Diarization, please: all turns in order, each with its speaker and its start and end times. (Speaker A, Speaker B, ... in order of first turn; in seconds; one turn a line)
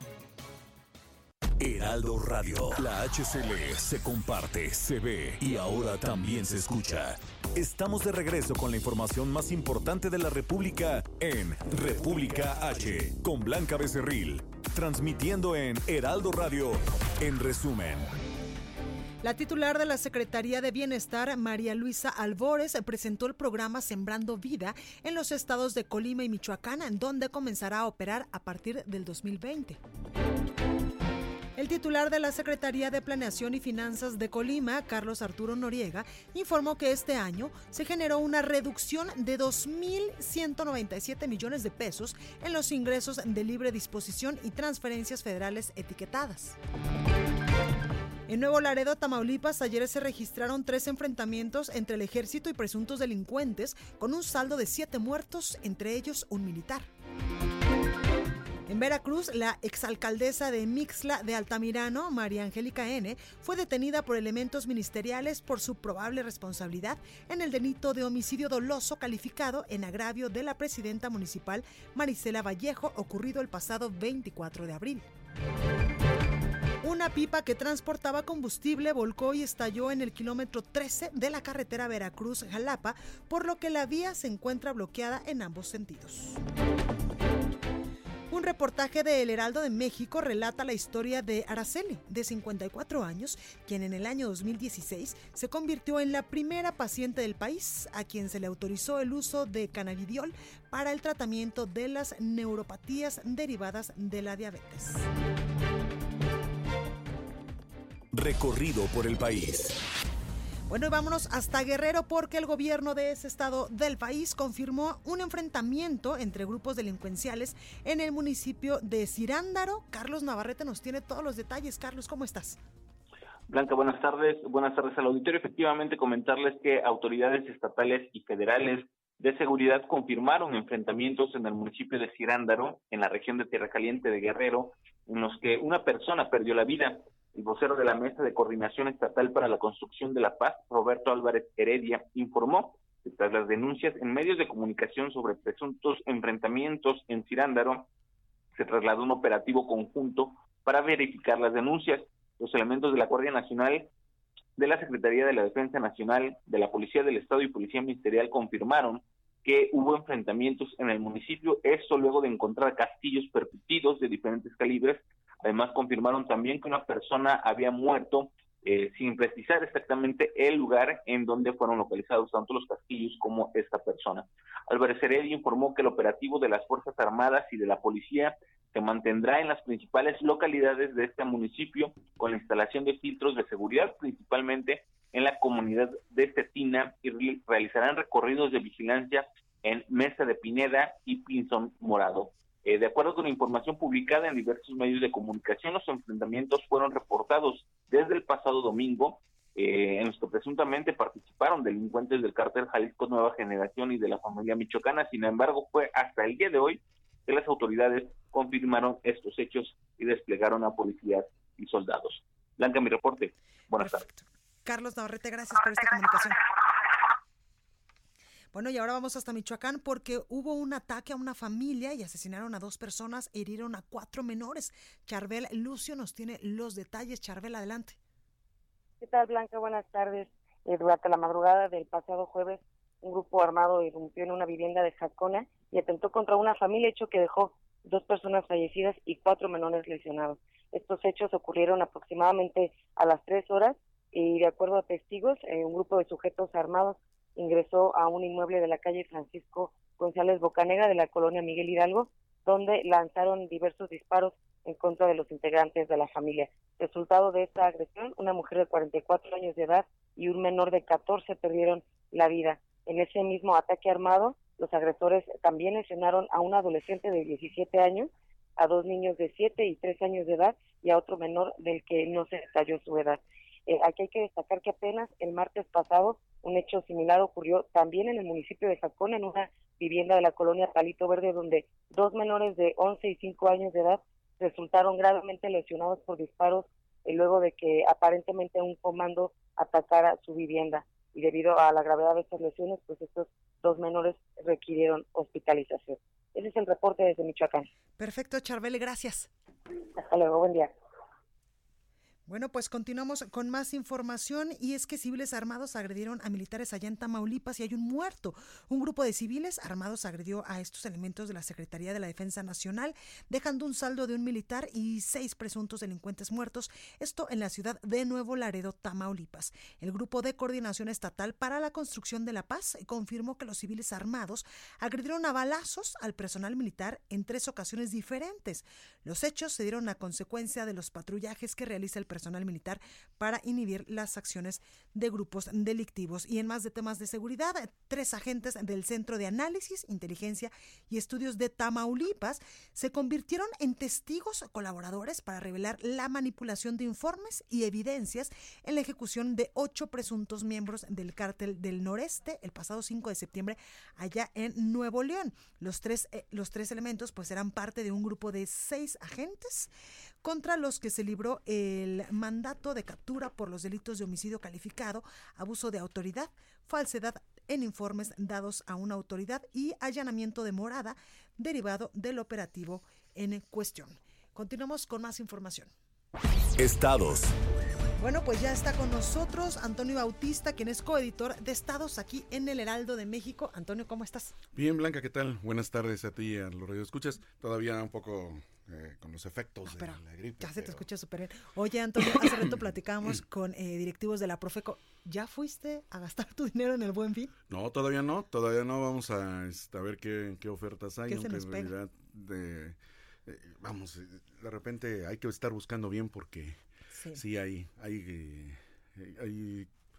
Speaker A: 1.6-18.1
Speaker B: 19.2-29.8
Speaker B: 31.6-46.5
Speaker B: 48.3-56.9
Speaker B: 58.7-75.0
Speaker B: 76.8-86.4
Speaker B: 88.3-105.0
Speaker A: 108.1-109.8
Speaker B: 110.7-122.6
Speaker C: 123.5-147.9
Speaker C: 148.5-153.9
Speaker C: 154.6-214.1
Speaker B: 213.8-216.4
Speaker B: 218.5-228.0
Speaker D: 229.0-297.7
Speaker B: 298.0-299.3
Speaker D: 299.9-300.7
Speaker B: 302.3-359.7
Speaker B: 360.2-375.7
Speaker A: 376.6-377.3
Speaker B: 378.0-384.3
Speaker E: 384.5-390.9
Speaker B: 389.7-397.3
Speaker E: 392.1-392.7
Speaker E: 397.5-406.6
Speaker B: 401.1-401.7
Speaker B: 406.9-407.2
Speaker E: 407.1-409.7